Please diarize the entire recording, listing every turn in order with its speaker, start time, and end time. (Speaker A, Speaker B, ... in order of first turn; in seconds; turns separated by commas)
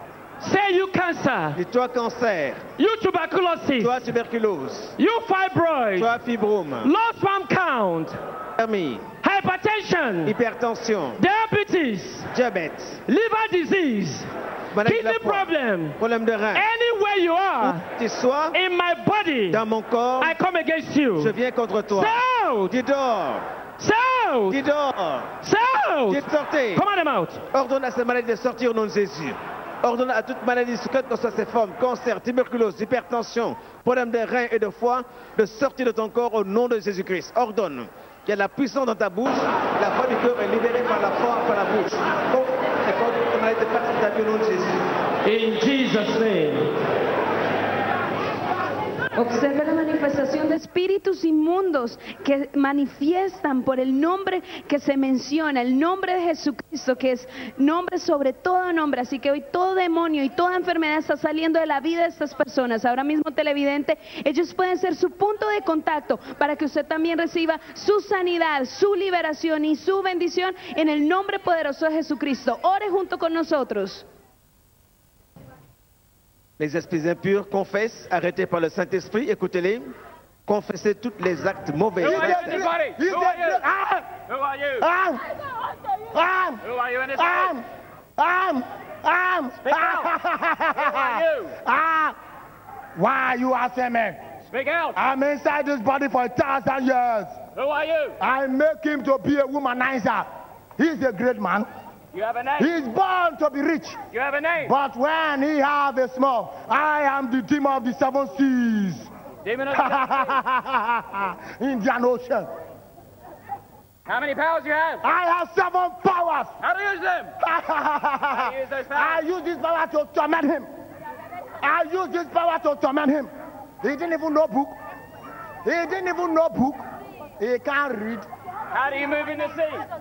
Speaker A: 0.4-1.6, Speaker B: 1.6-2.6, Speaker A: 2.8-4.1, Speaker B: 3.8-5.0, Speaker A: 5.0-6.2, Speaker B: 6.0-6.9, Speaker A: 6.8-8.2, Speaker B: 8.6-9.1, Speaker A: 9.2-10.4, Speaker B: 10.2-11.2, Speaker A: 11.2-12.3, Speaker B: 12.3-13.0, Speaker A: 13.1-14.3, Speaker B: 14.7-16.7, Speaker A: 14.8-16.0, Speaker A: 16.5-17.8, Speaker B: 17.6-18.6, Speaker A: 18.5-19.6, Speaker B: 19.5-20.4, Speaker A: 20.2-21.4, Speaker B: 21.2-23.4, Speaker A: 21.9-22.8, Speaker A: 23.8-24.6, Speaker B: 24.5-25.3, Speaker A: 25.4-27.4, Speaker B: 26.1-26.9, Speaker B: 27.5-44.8, Speaker A: 45.2-46.7, Speaker C: 49.2-74.0, Speaker B: 76.6-79.9, Speaker B: 80.5-82.6, Speaker D: 82.0-83.6, Speaker E: 82.0-84.1, Speaker D: 84.3-84.9, Speaker E: 84.8-85.2, Speaker E: 86.1-86.6, Speaker D: 86.6-87.6, Speaker E: 87.1-87.6, Speaker E: 88.2-92.2, Speaker D: 89.6-90.1, Speaker D: 90.8-91.5, Speaker E: 93.0-94.2, Speaker D: 94.5-95.0, Speaker E: 95.0-97.4, Speaker D: 97.6-98.2, Speaker E: 98.2-101.7, Speaker D: 102.1-102.8, Speaker E: 102.6-104.0, Speaker D: 104.1-104.7, Speaker E: 104.6-109.1, Speaker D: 109.5-110.2, Speaker E: 109.7-112.5, Speaker D: 114.1-115.0, Speaker E: 115.0-116.5, Speaker D: 116.6-117.3, Speaker E: 117.4-120.7, Speaker D: 118.4-119.2, Speaker E: 121.6-123.3, Speaker E: 123.8-124.8, Speaker E: 125.7-126.8, Speaker E: 127.4-128.2, Speaker D: 128.7-129.8